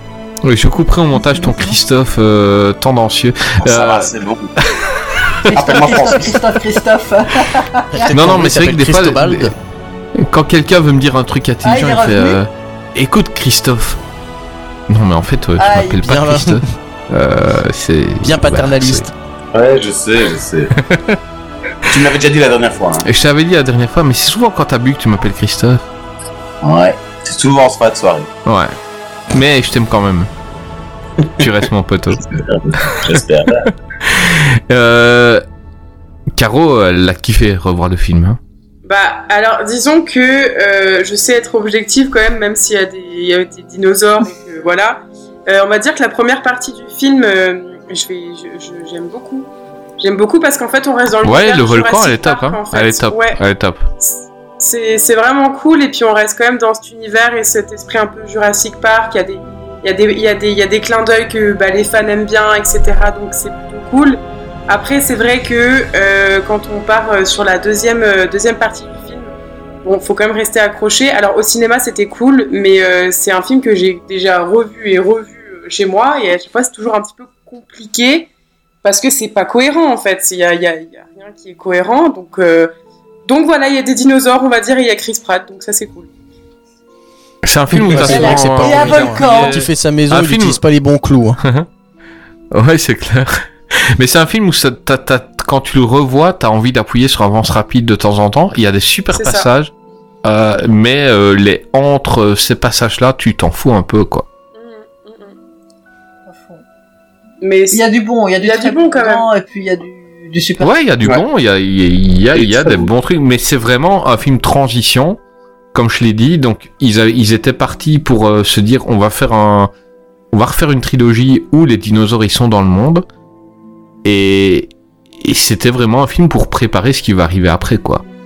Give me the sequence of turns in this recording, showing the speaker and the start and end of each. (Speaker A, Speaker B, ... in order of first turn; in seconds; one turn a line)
Speaker A: 0.4-4.1
Speaker B: 1.3-1.8
Speaker C: 3.6-4.5
Speaker A: 5.2-6.0
Speaker B: 5.5-8.2
Speaker C: 5.5-6.4
Speaker D: 7.9-9.5
Speaker A: 8.1-9.5
Speaker A: 10.2-14.0
Speaker B: 11.6-12.4
Speaker A: 14.9-19.1
Speaker B: 15.6-16.0
Speaker D: 16.0-16.6
Speaker D: 18.2-19.1
Speaker C: 19.5-20.7
Speaker A: 20.8-21.2
Speaker C: 21.9-23.1
Speaker A: 23.1-25.8
Speaker C: 26.6-28.3
Speaker A: 28.5-28.7
Speaker A: 29.3-30.3
Speaker A: 31.4-32.2
Speaker C: 32.2-33.7
Speaker A: 34.0-35.4
Speaker A: 36.4-38.4
Speaker E: 38.9-53.4
Speaker A: 51.2-53.8
Speaker E: 54.0-69.3
Speaker E: 69.8-78.3
Speaker E: 78.8-82.7
Speaker E: 83.3-86.1
Speaker A: 87.4-90.6
Speaker D: 87.7-91.4
Speaker B: 88.0-89.6
Speaker A: 92.5-99.7
Speaker E: 99.1-99.5
Speaker A: 100.2-104.3
Speaker E: 104.5-105.4
Speaker B: 106.3-106.6
Speaker E: 107.4-107.8
Speaker B: 107.7-110.7
Speaker E: 108.4-109.3
Speaker A: 110.6-115.2
Speaker C: 112.3-112.9
Speaker A: 115.7-119.7
Speaker A: 120.3-123.0
Speaker A: 124.0-128.0